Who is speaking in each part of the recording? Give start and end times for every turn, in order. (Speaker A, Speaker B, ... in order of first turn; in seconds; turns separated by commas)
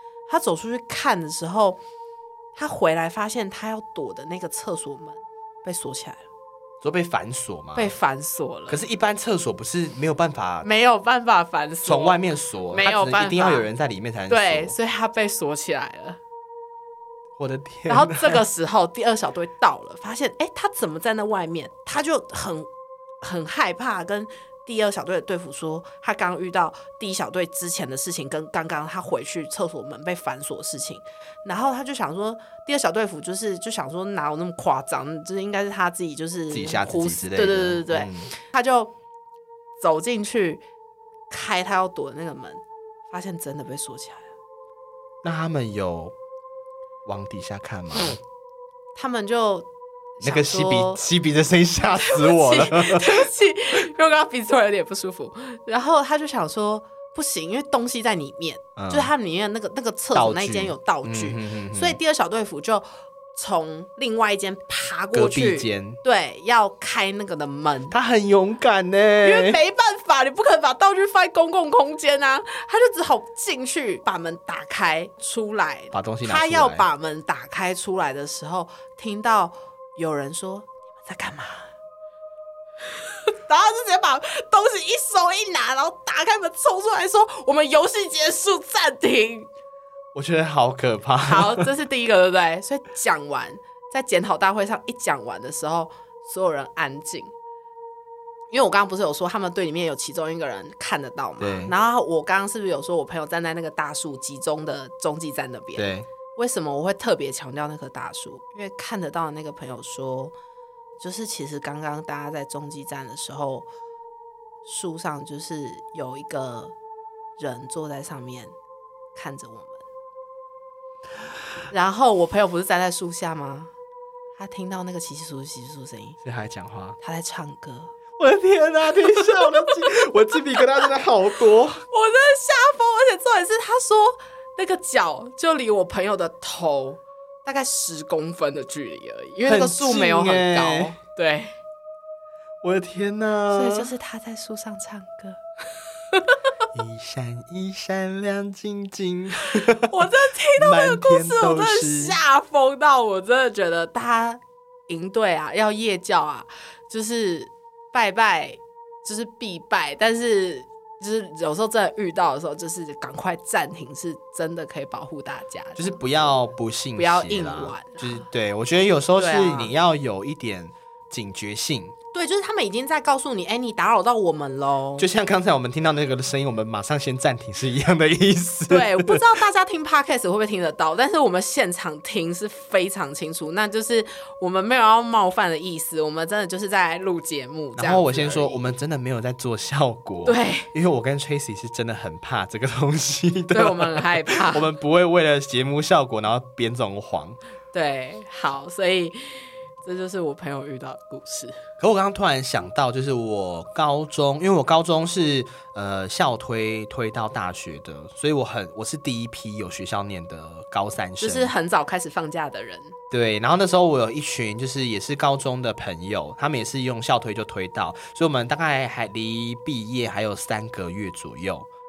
Speaker A: 0.3-1.8, Speaker A: 2.5-6.2, Speaker B: 6.8-7.9, Speaker A: 7.7-8.8, Speaker B: 8.7-10.7, Speaker A: 10.6-13.7, Speaker B: 11.8-14.8, Speaker A: 14.3-16.2, Speaker B: 17.4-18.4, Speaker A: 17.9-22.7, Speaker A: 23.2-38.9, Speaker B: 36.5-38.3, Speaker A: 39.8-40.6, Speaker A: 41.3-44.3, Speaker B: 45.2-46.1, Speaker B: 47.0-48.2, Speaker A: 48.9-49.7, Speaker A: 50.2-51.0, Speaker B: 50.2-53.3, Speaker A: 52.0-67.9, Speaker B: 58.8-59.1, Speaker B: 60.1-62.0, Speaker B: 65.1-66.0, Speaker B: 67.9-69.6, Speaker A: 69.2-81.7, Speaker B: 75.9-76.8, Speaker A: 83.3-89.5, Speaker B: 90.1-91.7, Speaker A: 91.2-97.3, Speaker A: 98.5-110.3, Speaker B: 101.4-101.7, Speaker B: 105.8-106.1, Speaker A: 111.0-113.7, Speaker A: 114.6-116.7, Speaker A: 117.4-118.5, Speaker A: 119.1-119.8, Speaker A: 121.7-123.7, Speaker A: 124.4-126.2, Speaker B: 126.2-127.0, Speaker A: 127.0-127.9, Speaker B: 128.2-131.8, Speaker A: 129.0-129.7, Speaker A: 131.9-141.6, Speaker B: 139.4-140.9, Speaker B: 142.6-143.9, Speaker A: 143.5-145.4, Speaker A: 146.1-146.4, Speaker B: 146.7-152.2, Speaker A: 149.5-166.3, Speaker B: 165.8-171.9, Speaker A: 166.9-168.3, Speaker A: 169.1-169.7, Speaker A: 172.1-175.1, Speaker B: 175.0-179.4, Speaker A: 178.7-188.7, Speaker B: 187.8-197.4, Speaker A: 190.2-190.7, Speaker A: 193.5-194.7, Speaker A: 197.7-201.6, Speaker B: 201.8-211.5, Speaker A: 211.2-212.9, Speaker B: 213.1-221.7